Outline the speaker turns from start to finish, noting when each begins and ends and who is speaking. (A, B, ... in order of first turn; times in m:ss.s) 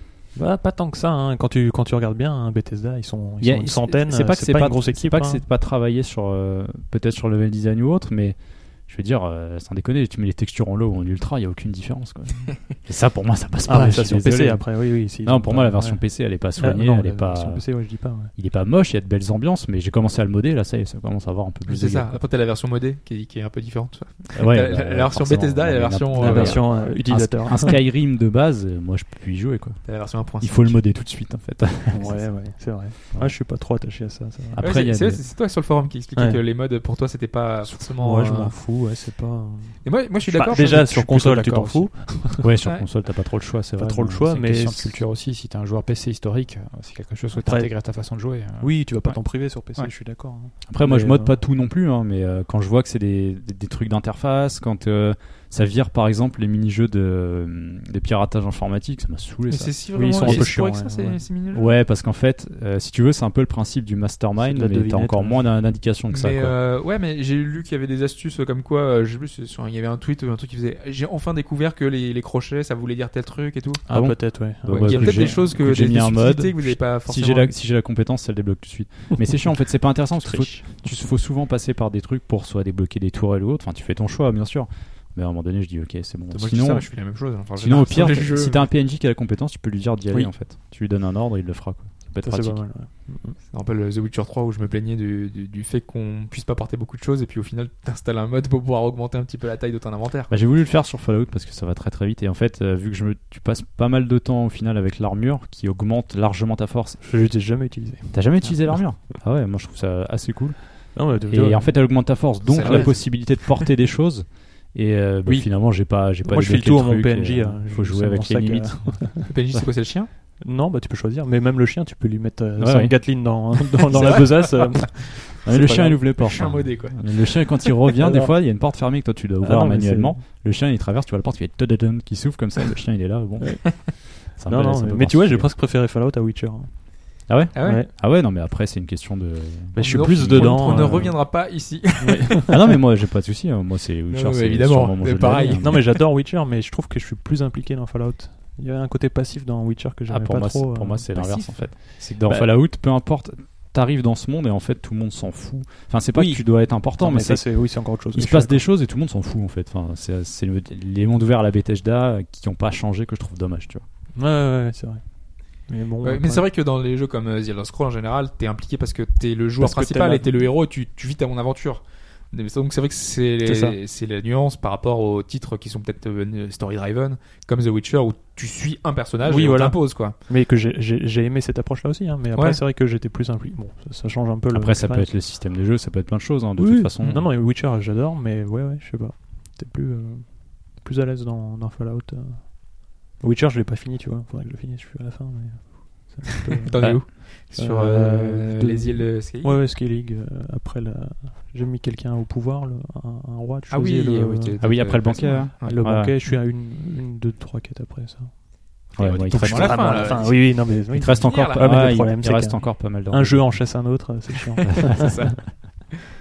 0:00.4-0:05.4 A
0:03.4-0:22.2 B
0:13.6-0:18.3 A
0:21.7-0:26.9 C
0:24.3-0:32.6 B
0:26.1-0:27.8 A
0:29.8-0:30.9 C
0:31.9-0:34.7 A
0:33.1-0:33.4 B
0:34.5-0:35.2 B
0:34.6-0:38.6 C
0:36.2-0:36.4 A
0:37.7-0:42.6 A
0:39.8-0:40.7 C
0:40.4-0:42.0 D
0:42.4-0:44.3 B
0:43.8-0:45.0 A
0:44.3-0:48.8 D
0:47.4-0:51.4 A
0:50.7-1:00.5 B
0:59.5-1:01.8 C
0:59.9-1:01.2 A
1:01.5-1:06.6 B
1:04.4-1:05.5 A
1:06.1-1:13.9 C
1:13.9-1:15.4 A
1:13.9-1:26.9 B
1:14.5-1:17.5 C
1:20.2-1:21.1 A
1:26.3-1:28.7 C
1:27.5-1:32.7 B
1:32.2-1:33.4 A
1:33.5-1:40.3 C
1:40.3-1:47.0 B
1:47.0-1:48.9 A
1:48.1-1:59.6 B
1:50.9-1:52.9 A
1:52.4-1:53.5 C
1:55.2-1:59.3 A
1:59.3-2:00.1 C
2:00.4-2:06.1 A
2:02.6-2:03.0 B
2:03.9-2:04.8 C
2:05.4-2:15.5 B
2:06.2-2:07.6 C
2:08.0-2:08.4 A
2:09.4-2:10.2 A
2:14.4-2:17.9 A
2:17.3-2:21.0 B
2:17.5-2:17.9 C
2:19.8-2:22.6 A
2:19.8-2:22.5 C
2:22.5-2:25.9 B
2:24.1-2:25.9 C
2:25.6-2:32.6 A
2:30.1-2:43.8 B
2:36.1-2:38.7 A
2:44.2-2:45.0 A
2:45.7-2:46.4 A
2:46.0-3:00.2 C
2:49.6-2:50.4 A
2:53.4-2:53.8 A
2:59.2-3:05.3 A
3:02.3-3:02.6 C
3:04.5-3:07.3 B
3:06.6-3:24.6 A
3:16.6-3:19.6 C
3:23.7-3:25.8 C
3:24.6-3:26.2 B
3:25.6-3:28.5 A
3:28.9-3:31.9 C
3:29.0-3:33.7 B
3:29.4-3:35.4 A
3:34.9-3:36.0 C